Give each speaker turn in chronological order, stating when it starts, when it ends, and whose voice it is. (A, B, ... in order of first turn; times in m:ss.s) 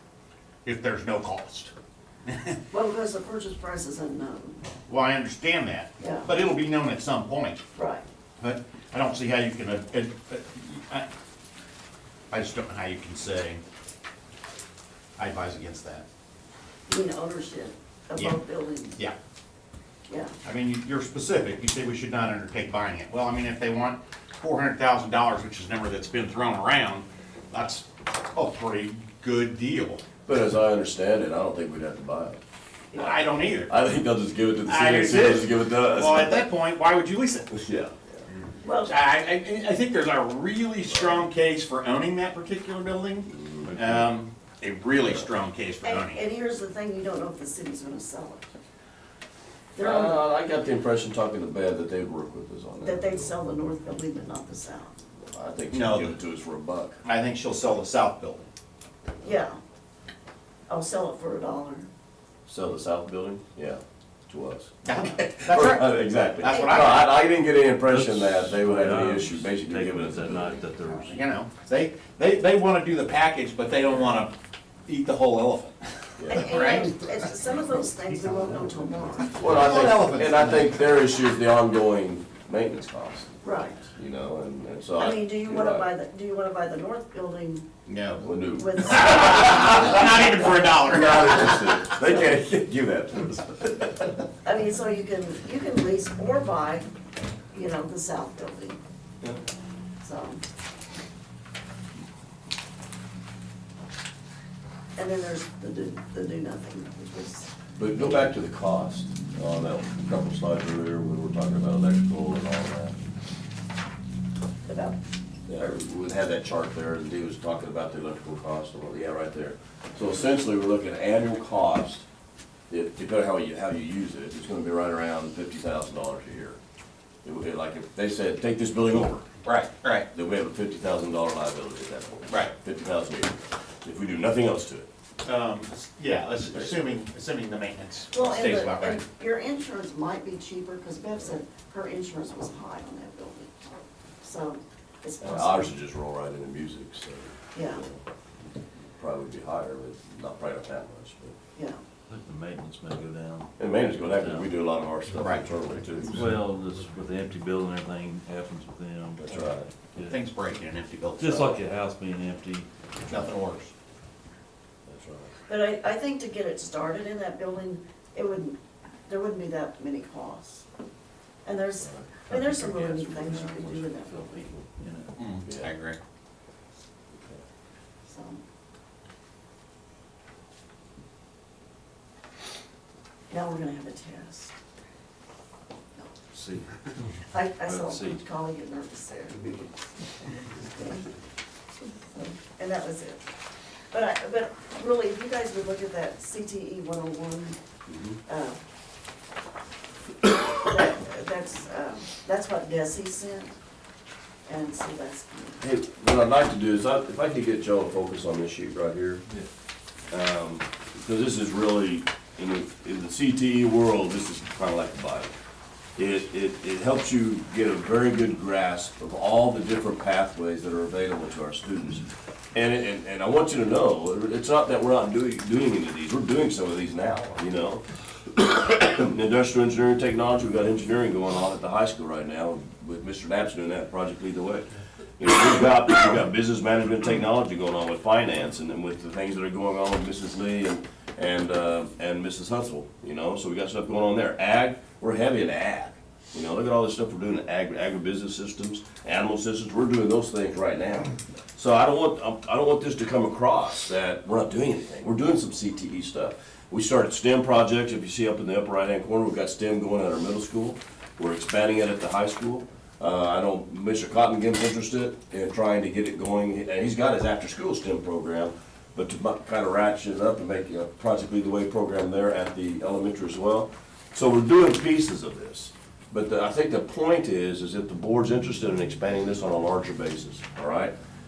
0:00.6-0:01.7 A
0:02.3-0:02.6 A
0:02.7-0:04.6 B
0:04.9-0:07.6 A
0:06.0-0:06.3 B
0:07.8-0:08.0 B
0:08.4-0:11.1 A
0:12.3-0:13.6 A
0:15.2-0:16.0 A
0:16.9-0:19.0 B
0:20.1-0:20.3 B
0:20.4-0:30.0 A
0:30.2-0:32.4 C
0:33.0-0:33.7 A
0:33.7-0:36.5 C
0:34.7-0:37.5 A
0:37.5-0:38.3 C
0:38.6-0:39.0 B
0:38.8-0:46.2 A
0:40.9-0:41.3 C
0:43.3-0:44.1 C
0:45.8-0:48.5 B
0:49.8-0:50.2 B
0:49.8-0:53.3 C
0:52.8-0:55.0 B
0:55.2-0:57.0 C
0:55.7-0:56.2 A
0:57.0-0:58.5 A
0:59.2-0:59.6 B
1:00.7-1:01.9 B
1:02.5-1:04.7 C
1:04.8-1:07.1 A
1:05.2-1:10.6 C
1:06.5-1:06.8 B
1:07.8-1:11.2 D
1:10.8-1:14.3 A
1:14.9-1:16.9 A
1:16.2-1:16.5 C
1:16.3-1:19.4 B
1:19.4-1:23.3 C
1:19.4-1:20.7 A
1:23.4-1:23.8 B
1:23.9-1:25.9 C
1:25.0-1:27.6 B
1:27.8-1:28.2 A
1:28.2-1:29.9 C
1:28.6-1:30.7 B
1:28.8-1:31.5 A
1:30.7-1:34.2 C
1:34.4-1:36.9 B
1:37.5-1:38.8 B
1:40.0-1:40.4 B
1:45.0-1:48.2 B
1:47.8-1:53.0 C
1:54.6-1:55.0 B
1:55.5-2:02.0 C
2:02.7-2:06.6 C
2:07.2-2:09.3 C
2:09.4-2:10.1 A
2:10.1-2:14.9 C
2:12.3-2:12.5 A
2:15.2-2:19.0 A
2:16.4-2:17.0 C
2:18.1-2:25.7 B
2:25.2-2:28.0 C
2:27.5-2:27.8 B
2:29.0-2:31.3 C
2:31.6-2:31.8 B
2:32.1-2:34.5 D
2:33.6-2:36.3 C
2:35.2-2:35.5 A
2:36.0-2:40.2 D
2:39.2-2:39.7 C
2:40.1-2:41.6 A
2:41.2-2:43.2 D
2:43.1-2:43.7 A
2:44.8-2:45.4 C
2:45.5-2:50.6 B
2:51.4-2:54.5 B
2:51.8-2:52.1 C
2:52.2-2:55.1 D
2:55.2-2:56.0 A
2:55.4-2:55.7 C
2:57.1-2:57.4 C
2:58.1-2:58.4 B
3:03.3-3:04.5 B
3:06.3-3:08.2 D
3:07.3-3:11.1 B
3:12.1-3:13.2 B
3:13.9-3:17.6 B
3:17.9-3:18.2 C
3:18.2-3:18.6 B
3:20.5-3:23.5 B
3:24.4-3:25.6 B
3:25.6-3:29.2 C
3:30.1-3:35.3 C
3:36.0-3:47.8 C
3:48.3-4:40.9 C